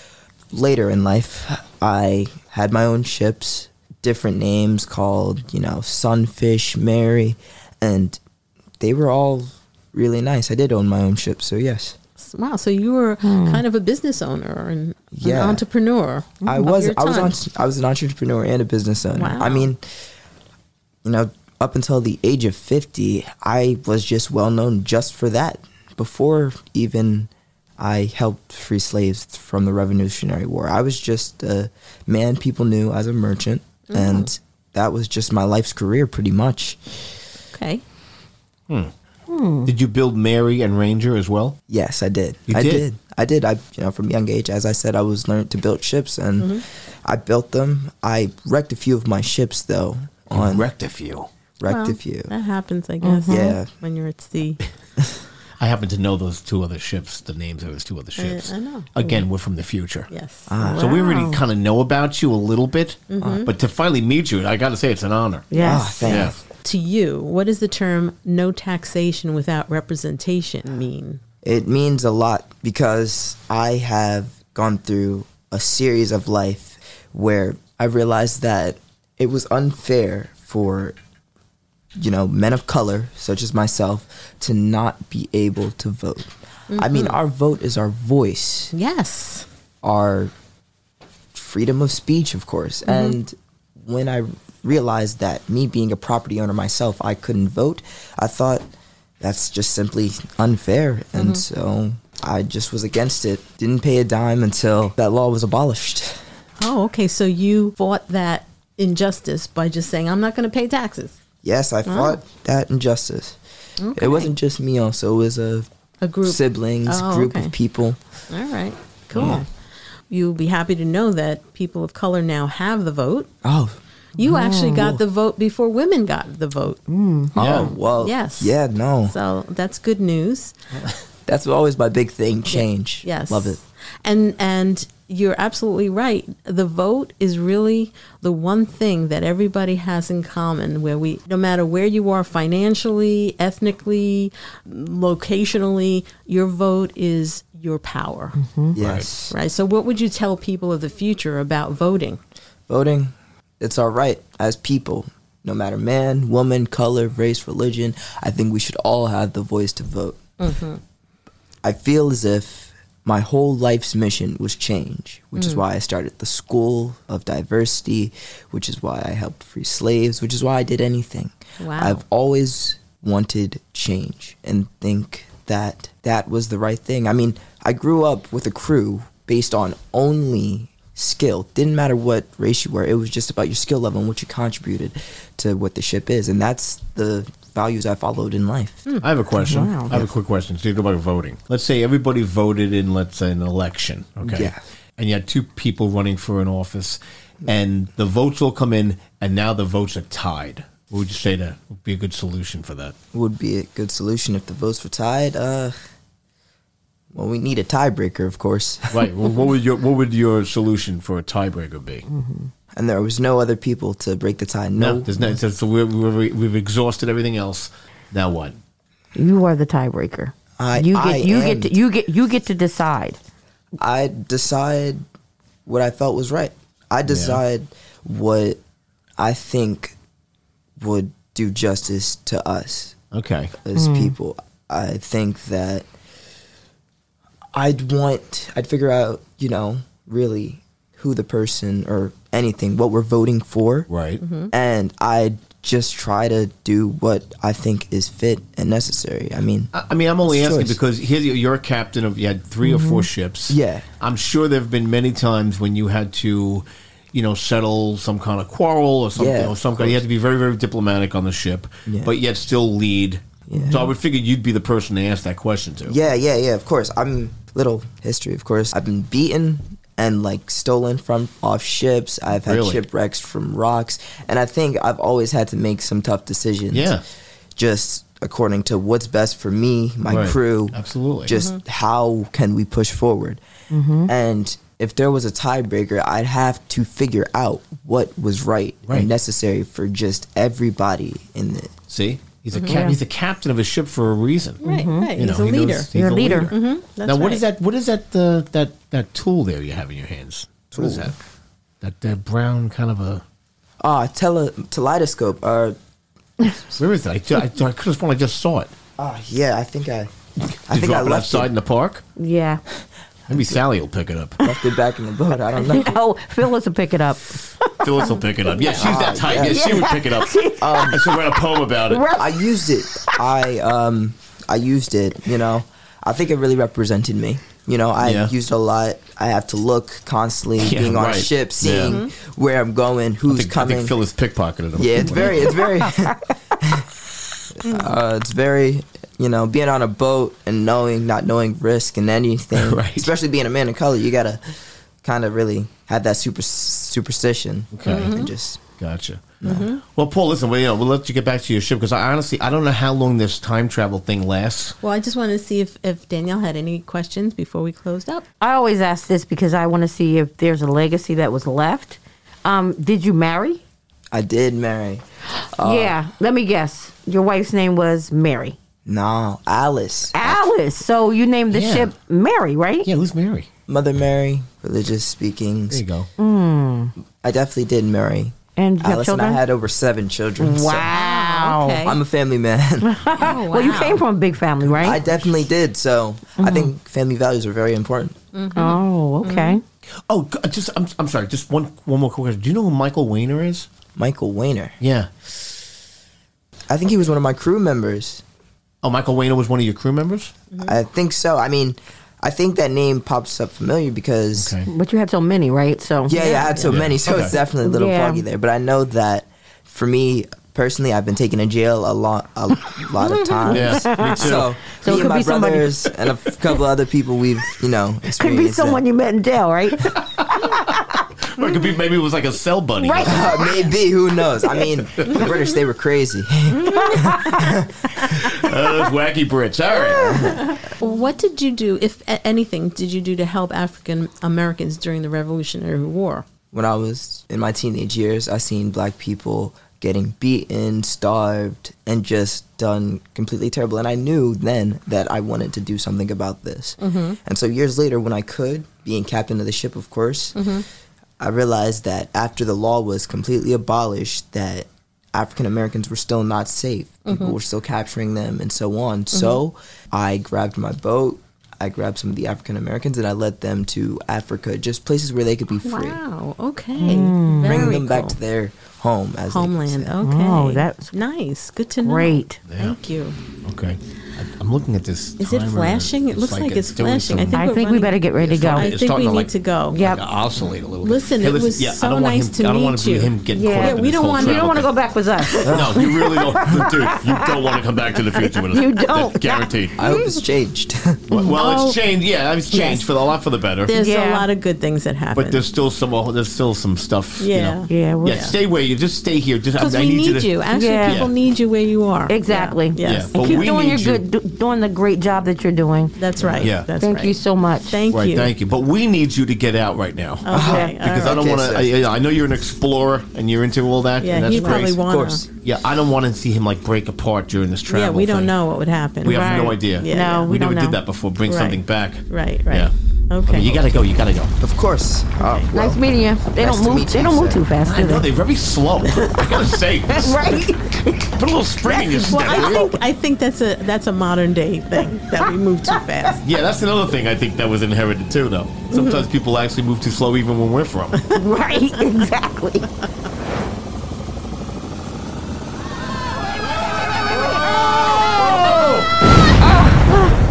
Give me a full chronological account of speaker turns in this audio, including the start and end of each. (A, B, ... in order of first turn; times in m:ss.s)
0:00.5-0:08.2 A
0:08.8-0:12.0 A
0:12.2-0:17.4 B
0:13.2-0:13.6 C
0:15.1-0:15.6 A
0:16.4-0:19.8 A
0:19.1-0:19.7 B
0:21.0-0:37.0 A
0:33.9-0:34.3 B
0:37.5-0:37.8 B
0:39.3-0:39.7 C
0:39.6-0:41.6 D
0:41.7-0:50.7 A
0:42.5-0:42.8 D
0:50.3-0:51.3 D
0:51.6-0:52.3 A
0:51.7-0:54.6 B
0:53.0-0:53.6 C
0:53.3-0:53.7 A
0:55.6-1:00.1 D
0:58.2-0:59.0 B
1:00.1-1:00.5 B
1:00.5-1:00.9 A
1:00.6-1:01.4 C
1:00.8-1:06.4 D
1:03.1-1:03.5 B
1:03.2-1:03.5 A
1:05.5-1:06.2 C
1:05.6-1:06.4 A
1:06.1-1:11.2 B
1:11.4-1:21.0 A
1:22.0-1:28.7 A
1:26.7-1:27.2 B
1:28.7-1:29.5 B
1:29.8-1:30.3 A
1:31.3-1:38.7 A
1:32.9-1:33.2 B
1:39.2-1:46.2 A
1:41.2-1:41.4 B
1:46.6-1:51.2 B
1:51.4-1:53.4 A
1:51.9-1:52.2 B
1:53.8-1:54.3 B
1:54.0-1:55.7 A
1:56.0-1:57.5 B
1:56.2-1:58.0 A
1:58.3-1:59.5 B
1:59.1-1:59.4 D
2:00.1-2:03.3 B
2:03.4-2:03.8 A
2:04.2-2:06.8 B
2:04.2-2:04.9 C
2:06.9-2:07.4 C
2:07.4-2:09.1 A
2:07.4-2:07.7 D
2:07.4-2:08.6 B
2:09.1-2:10.5 B
2:11.3-2:13.6 A
2:12.5-2:28.4 B
2:28.4-2:28.8 C
2:28.8-2:29.3 A
2:28.8-2:29.1 D
2:29.3-2:32.2 B
2:32.7-2:40.2 A
2:40.4-2:40.8 B
2:41.6-3:08.9 A
2:51.6-2:52.0 B
3:09.0-3:23.0 D
3:09.4-3:10.0 C
3:14.2-3:14.6 A
3:23.1-3:25.8 A
3:27.1-3:29.1 A
3:28.9-3:32.1 D
3:32.1-3:32.5 C
3:32.8-3:35.1 A
3:34.8-3:38.6 D
3:39.2-3:43.2 C
3:40.6-3:41.7 A
3:43.8-3:45.0 A
3:45.7-3:48.6 A
3:47.1-3:47.4 D
3:49.2-3:50.0 A
3:50.8-3:53.0 A
3:53.1-3:53.5 D
3:53.6-3:55.9 A
3:53.8-3:54.2 C
3:57.5-4:03.9 A
4:03.9-4:04.2 D
4:04.2-4:04.5 B
4:04.5-4:09.7 A
4:09.7-4:26.0 D
4:10.2-4:10.8 A
4:12.6-4:13.1 C
4:13.5-4:13.8 A
4:19.2-4:20.0 A
4:21.9-4:22.1 A
4:23.5-4:23.9 A
4:25.9-4:37.0 A
4:32.4-4:32.8 D
4:36.7-4:37.0 D
4:37.6-4:43.4 A
4:40.1-4:41.3 D
4:41.3-4:41.6 B
4:43.7-4:44.1 C
4:44.1-4:51.8 A
4:51.9-5:01.2 D
4:52.5-4:52.8 B
4:52.6-4:53.0 C
4:54.6-4:57.4 B
4:54.7-4:55.2 C
4:55.9-4:56.5 C
5:00.8-5:01.1 A
5:01.8-5:03.2 D
5:03.8-5:05.8 A
5:06.5-5:06.8 A
5:06.8-5:08.7 D
5:09.0-5:10.1 A
5:10.7-5:11.5 A
5:10.7-5:12.0 D
5:12.2-5:12.6 C
5:13.3-5:14.4 D
5:14.4-5:16.0 A
5:15.7-5:21.3 C
5:17.8-5:22.1 D
5:18.8-5:19.8 A
5:20.6-5:21.0 A
5:21.9-5:23.2 C
5:22.2-5:34.0 A
5:28.0-5:28.3 D
5:30.6-5:32.0 D
5:31.9-5:32.1 B
5:33.3-5:35.7 D
5:34.8-5:36.9 A
5:37.6-5:44.5 A
5:42.6-5:43.1 D
5:45.0-5:48.6 A
5:47.7-5:48.2 D
5:47.9-5:48.3 B
5:48.8-5:54.8 D
5:49.4-5:49.7 A
5:49.4-5:49.8 B
5:54.8-5:58.2 B
5:58.4-6:03.6 C
6:04.1-6:05.0 A
6:05.6-6:06.0 A
6:05.6-6:08.6 C
6:08.9-6:10.4 A
6:10.1-6:12.9 C
6:11.5-6:11.9 D
6:12.8-6:13.5 D
6:13.7-6:15.8 A
6:15.7-6:16.1 D
6:16.2-6:16.9 C
6:17.2-6:20.9 A
6:18.6-6:19.4 C
6:20.4-6:21.9 C
6:20.9-6:22.0 B
6:21.8-6:22.9 A
6:22.8-6:25.0 C
6:23.2-6:24.0 B
6:24.7-6:25.2 D
6:24.8-6:28.2 A
6:26.4-6:26.7 C
6:28.3-6:29.6 B
6:28.6-6:29.6 C
6:30.1-6:33.7 D
6:34.0-6:34.8 A
6:34.8-6:35.1 D
6:36.7-6:38.2 A
6:38.8-6:40.4 D
6:40.5-6:40.8 B
6:40.6-6:44.6 A
6:44.4-6:44.7 D
6:44.6-6:46.4 C
6:46.1-6:58.8 A
6:46.2-6:46.8 B
6:46.6-6:47.3 D
6:47.6-6:48.2 C
6:53.0-6:56.0 C
6:53.5-6:54.5 D
6:58.2-7:01.6 C
6:59.9-7:00.6 D
7:01.3-7:03.5 D
7:02.8-7:03.7 C
7:03.0-7:07.7 A
7:06.5-7:07.1 B
7:06.8-7:07.5 C
7:08.1-7:10.4 D
7:09.9-7:10.5 A
7:10.4-7:16.2 B
7:16.5-7:30.5 A
7:26.8-7:27.2 B
7:30.4-7:30.6 B
7:31.2-7:46.0 A
7:37.1-7:37.4 B
7:39.1-7:39.4 B
7:45.6-7:48.2 B
7:46.8-7:47.7 C
7:47.4-7:50.0 A
7:49.3-7:53.2 B
7:50.0-7:50.9 C
7:51.8-7:52.4 C
7:52.5-7:52.8 D
7:53.4-7:57.5 D
7:55.2-7:59.8 B
7:57.3-7:58.7 C
7:58.2-8:04.8 D
7:59.7-8:00.0 C
8:00.8-8:04.5 B
8:03.3-8:07.3 C
8:05.5-8:09.8 D
8:05.5-8:05.8 A
8:08.5-8:10.2 C
8:09.8-8:11.0 A
8:11.1-8:13.7 D
8:11.3-8:11.8 B
8:12.5-8:12.8 B
8:13.7-8:15.4 B
8:13.7-8:14.3 C
8:15.2-8:21.1 D
8:17.2-8:18.4 B
8:17.7-8:18.2 C
8:19.6-8:23.5 B
8:20.5-8:21.1 C
8:22.1-8:27.8 C
8:22.8-8:24.0 D
8:26.0-8:28.3 B
8:26.4-8:26.7 D
8:27.9-8:38.4 D
8:30.2-8:31.2 B
8:30.3-8:31.7 A
8:30.4-8:30.8 C
8:34.0-8:35.2 B
8:34.2-8:35.3 A
8:37.7-8:40.3 B
8:39.0-8:42.7 D
8:39.1-8:40.8 C
8:41.3-8:43.6 B
8:43.3-8:44.4 D
8:44.4-8:47.4 A
8:45.2-8:45.5 B
8:45.5-8:48.1 C
8:47.6-8:50.5 D
8:49.9-8:51.1 C
8:51.1-8:52.8 D
8:51.7-8:56.2 B
8:56.2-9:01.0 D
8:58.7-8:59.0 B
9:01.0-9:02.0 B
9:01.1-9:02.7 C
9:08.3-9:08.9 D
9:09.7-9:10.1 C